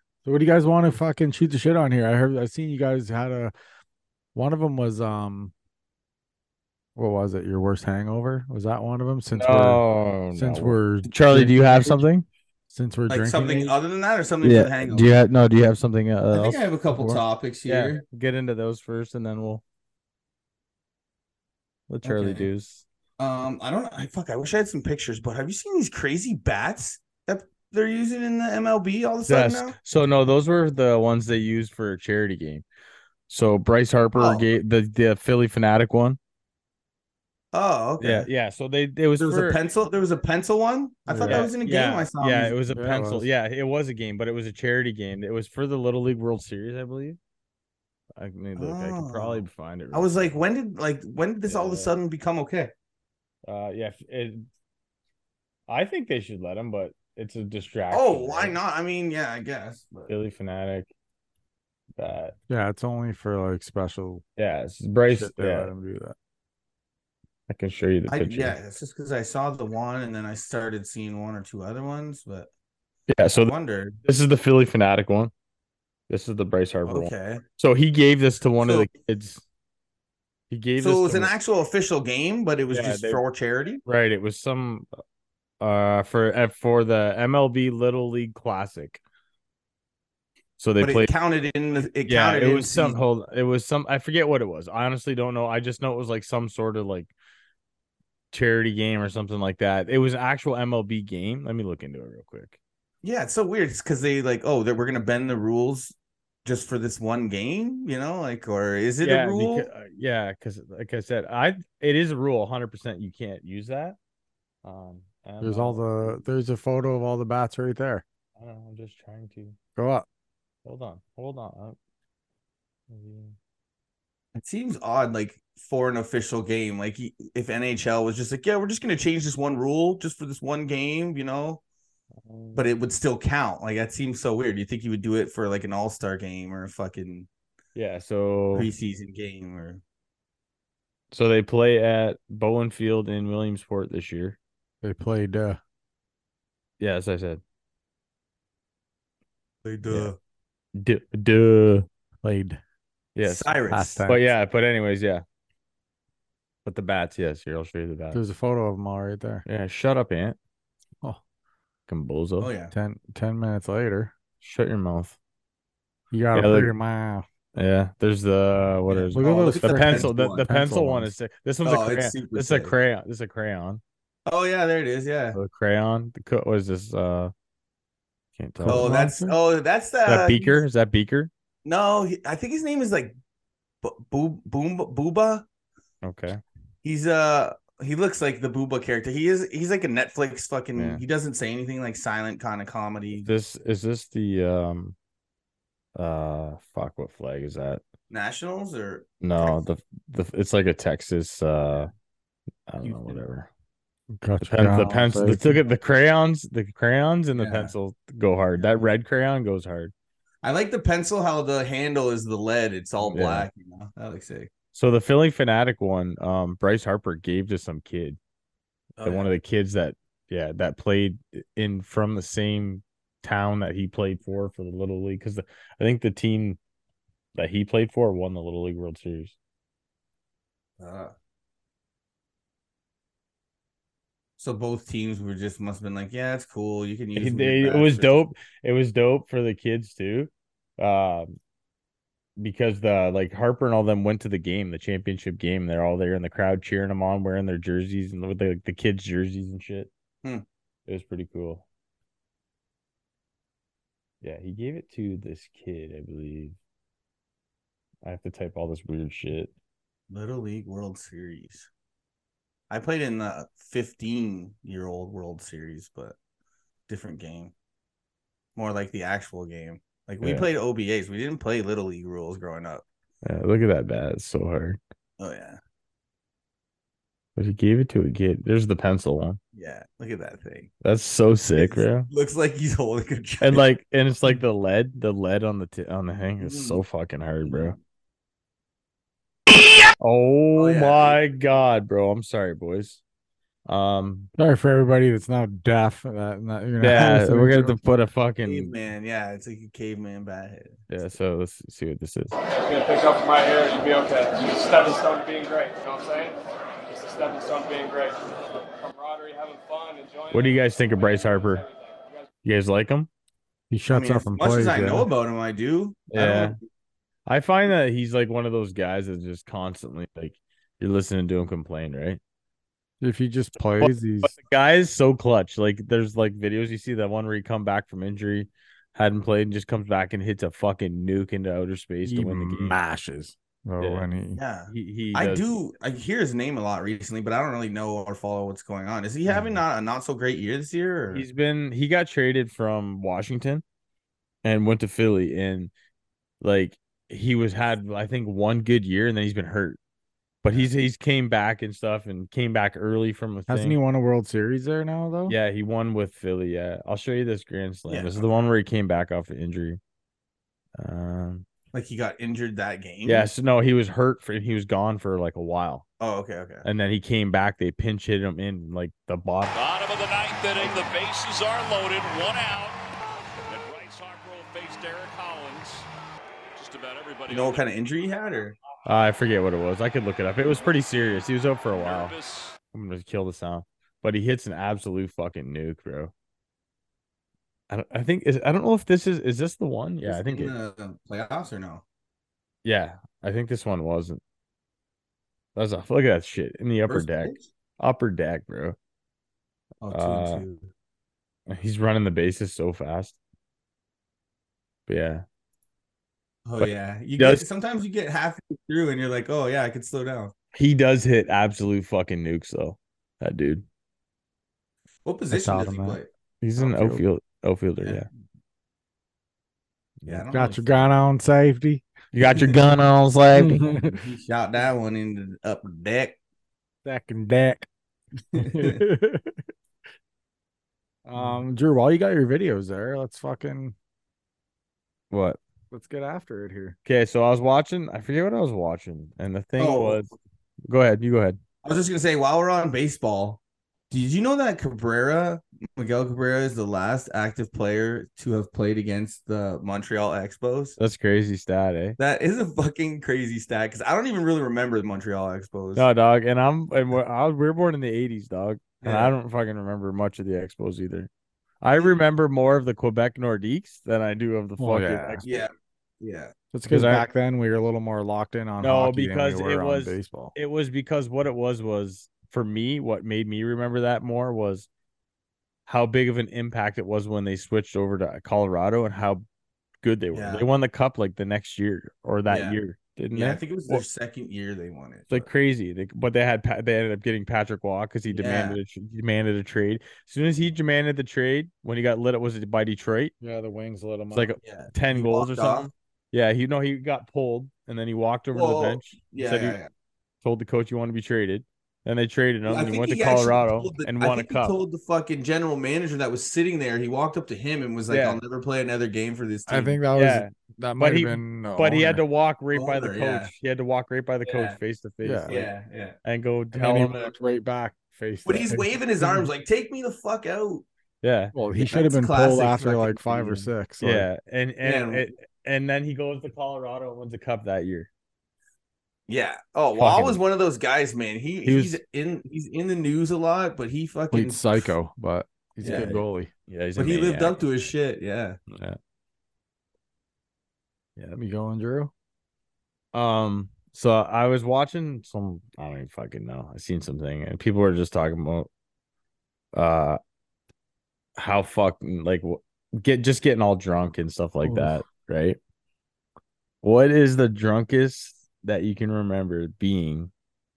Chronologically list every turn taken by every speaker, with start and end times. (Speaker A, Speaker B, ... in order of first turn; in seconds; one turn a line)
Speaker A: 0.2-3.5
Speaker A: 4.3-5.5
Speaker A: 7.0-9.8
Speaker B: 9.3-12.3
Speaker A: 10.3-12.0
Speaker A: 12.7-13.7
Speaker C: 13.1-15.1
Speaker B: 14.4-19.6
Speaker C: 16.3-18.0
Speaker B: 21.9-22.8
Speaker C: 22.0-22.5
Speaker C: 23.2-29.8
Speaker B: 29.3-32.6
Speaker B: 33.3-36.2
Speaker C: 34.2-34.5
Speaker C: 37.5-38.3
Speaker B: 38.0-39.6
Speaker C: 39.2-42.5
Speaker A: 41.1-41.5
Speaker B: 41.2-47.2
Speaker A: 42.7-43.3
Speaker B: 48.2-50.3
Speaker C: 48.6-52.7
Speaker B: 51.5-51.9
Speaker B: 53.5-54.5
Speaker B: 55.7-58.6
Speaker C: 57.9-60.1
Speaker B: 60.1-60.9
Speaker B: 62.0-62.4
Speaker A: 62.5-64.2
Speaker B: 64.4-65.7
Speaker A: 65.1-66.2
Speaker B: 67.5-68.6
Speaker C: 68.1-72.5
Speaker B: 73.1-73.5
Speaker C: 73.3-74.0
Speaker B: 74.0-75.3
Speaker B: 76.1-79.4
Speaker C: 76.9-77.4
Speaker C: 78.6-78.9
Speaker B: 80.5-81.3
Speaker C: 80.8-83.8
Speaker B: 82.7-83.2
Speaker B: 83.8-84.9
Speaker B: 85.6-89.0
Speaker B: 90.6-91.1
Speaker C: 90.8-93.0
Speaker B: 92.1-97.1
Speaker B: 98.3-102.6
Speaker C: 103.0-105.9
Speaker C: 106.5-109.7
Speaker B: 109.0-114.0
Speaker B: 114.6-116.2
Speaker A: 115.4-118.0
Speaker B: 118.4-119.6
Speaker A: 119.8-120.1
Speaker B: 120.7-121.8
Speaker B: 122.9-123.3
Speaker C: 124.3-131.6
Speaker B: 132.2-132.7
Speaker C: 132.6-137.3
Speaker B: 137.8-138.7
Speaker C: 138.6-139.8
Speaker B: 141.1-144.4
Speaker A: 144.8-145.6
Speaker B: 146.8-147.4
Speaker C: 149.7-150.2
Speaker B: 150.8-151.9
Speaker A: 152.2-152.6
Speaker B: 153.2-153.5
Speaker C: 153.2-154.0
Speaker A: 153.7-154.2
Speaker B: 154.1-155.2
Speaker B: 156.7-158.2
Speaker A: 158.1-159.4
Speaker B: 159.5-160.4
Speaker B: 161.9-162.5
Speaker C: 162.4-162.7
Speaker A: 162.7-164.1
Speaker B: 164.4-165.2
Speaker A: 166.1-167.3
Speaker B: 166.3-166.7
Speaker B: 167.6-173.8
Speaker C: 168.9-170.5
Speaker A: 169.2-171.1
Speaker C: 171.6-172.7
Speaker C: 174.3-175.4
Speaker B: 175.3-177.3
Speaker B: 178.4-178.9
Speaker A: 178.6-179.3
Speaker C: 178.7-180.6
Speaker B: 180.1-181.3
Speaker C: 181.7-183.2
Speaker C: 183.8-185.4
Speaker B: 186.0-186.4
Speaker C: 186.8-193.3
Speaker B: 190.8-191.0
Speaker B: 193.2-195.0
Speaker B: 196.0-197.8
Speaker C: 198.1-199.6
Speaker B: 199.2-201.9
Speaker B: 202.7-203.5
Speaker C: 202.8-203.2
Speaker A: 204.2-205.6
Speaker B: 204.4-209.9
Speaker C: 207.4-207.7
Speaker C: 208.6-208.9
Speaker C: 210.4-214.5
Speaker B: 213.0-213.5
Speaker B: 214.7-218.2
Speaker C: 219.0-219.3
Speaker B: 219.0-226.6
Speaker B: 227.3-229.4
Speaker C: 230.8-231.1
Speaker C: 234.4-238.2
Speaker B: 237.2-241.3
Speaker B: 242.4-249.9
Speaker B: 250.9-251.7
Speaker B: 254.2-256.6
Speaker B: 258.0-259.5
Speaker C: 260.1-261.7
Speaker C: 262.7-266.2
Speaker C: 266.9-267.5
Speaker C: 268.6-272.8
Speaker B: 270.2-270.5
Speaker B: 273.2-274.8
Speaker C: 275.2-275.6
Speaker B: 277.4-279.4
Speaker C: 279.5-280.7
Speaker B: 280.8-282.1
Speaker C: 281.6-283.6
Speaker B: 283.4-287.8
Speaker C: 286.4-286.8
Speaker C: 287.4-287.8
Speaker B: 290.0-293.0
Speaker C: 290.6-291.2
Speaker B: 293.7-294.3
Speaker A: 294.4-297.8
Speaker B: 296.8-298.7
Speaker C: 298.4-300.8
Speaker B: 300.9-302.3
Speaker D: 302.5-312.3
Speaker B: 310.3-311.6
Speaker B: 312.4-313.1
Speaker A: 313.7-315.1
Speaker C: 313.9-316.6
Speaker B: 316.1-316.6
Speaker B: 317.3-322.2
Speaker A: 323.0-324.3
Speaker B: 323.8-332.8
Speaker A: 332.1-334.4
Speaker B: 333.8-334.1
Speaker C: 334.4-341.2
Speaker B: 334.7-335.4
Speaker B: 341.1-343.6
Speaker B: 344.4-345.7
Speaker B: 346.4-349.8
Speaker B: 350.4-353.8
Speaker A: 353.5-355.4
Speaker B: 355.3-359.8
Speaker C: 357.9-358.2
Speaker B: 360.8-361.4
Speaker C: 361.7-363.3
Speaker B: 363.1-365.9
Speaker C: 366.0-366.6
Speaker B: 366.6-369.6
Speaker E: 369.5-372.8
Speaker E: 373.4-375.9
Speaker E: 376.6-377.7
Speaker C: 377.3-378.6
Speaker B: 378.9-382.1
Speaker E: 381.7-382.6
Speaker B: 382.7-386.1
Speaker B: 387.7-390.5
Speaker C: 390.0-391.8
Speaker B: 392.6-394.2
Speaker B: 395.6-398.8
Speaker C: 396.9-397.5
Speaker C: 399.8-400.7
Speaker B: 399.9-400.4
Speaker B: 401.5-403.2
Speaker B: 404.9-405.2
Speaker C: 406.5-410.3
Speaker B: 406.6-407.4
Speaker B: 410.5-413.6
Speaker C: 415.1-416.1
Speaker A: 415.3-416.0
Speaker B: 416.4-418.1
Speaker A: 416.6-417.0
Speaker C: 420.1-420.7
Speaker A: 420.1-421.9
Speaker B: 422.1-423.7
Speaker A: 423.4-424.0
Speaker C: 423.9-426.2
Speaker A: 426.9-427.7
Speaker C: 428.4-428.8
Speaker A: 428.4-429.2
Speaker A: 431.1-433.8
Speaker B: 435.1-435.4
Speaker A: 435.7-436.8
Speaker B: 436.9-440.1
Speaker C: 439.6-440.1
Speaker B: 440.7-441.4
Speaker C: 441.6-443.4
Speaker C: 443.9-450.8
Speaker B: 450.8-452.0
Speaker C: 452.0-455.9
Speaker B: 455.8-461.1
Speaker C: 458.8-459.1
Speaker B: 461.6-465.4
Speaker A: 464.6-465.2
Speaker C: 465.2-465.5
Speaker C: 466.0-466.3
Speaker A: 466.5-470.3
Speaker B: 466.7-467.1
Speaker B: 468.6-474.7
Speaker B: 475.7-479.2
Speaker B: 479.8-483.8
Speaker C: 480.1-480.4
Speaker C: 482.3-482.6
Speaker C: 483.1-485.3
Speaker B: 485.1-493.1
Speaker C: 488.1-488.6
Speaker A: 493.2-494.3
Speaker B: 494.1-499.6
Speaker C: 494.4-495.7
Speaker C: 498.3-499.7
Speaker B: 500.2-504.6
Speaker C: 502.5-509.8
Speaker B: 507.9-508.2
Speaker A: 509.5-512.0
Speaker B: 509.9-515.5
Speaker C: 512.5-513.3
Speaker C: 514.3-514.6
Speaker A: 515.0-515.4
Speaker C: 515.3-516.0
Speaker B: 516.1-517.1
Speaker A: 516.5-519.3
Speaker C: 518.2-520.6
Speaker B: 521.0-521.4
Speaker A: 521.3-524.1
Speaker C: 521.6-523.4
Speaker B: 523.8-527.9
Speaker C: 524.6-525.1
Speaker C: 529.1-534.7
Speaker B: 529.8-530.2
Speaker B: 531.5-531.8
Speaker A: 534.1-536.3
Speaker C: 535.6-536.0
Speaker B: 535.6-537.4
Speaker C: 536.8-538.4
Speaker B: 538.5-538.8
Speaker A: 541.1-541.9
Speaker B: 542.9-548.5
Speaker B: 549.5-550.0
Speaker B: 551.2-555.4
Speaker A: 554.4-554.8
Speaker B: 556.6-560.1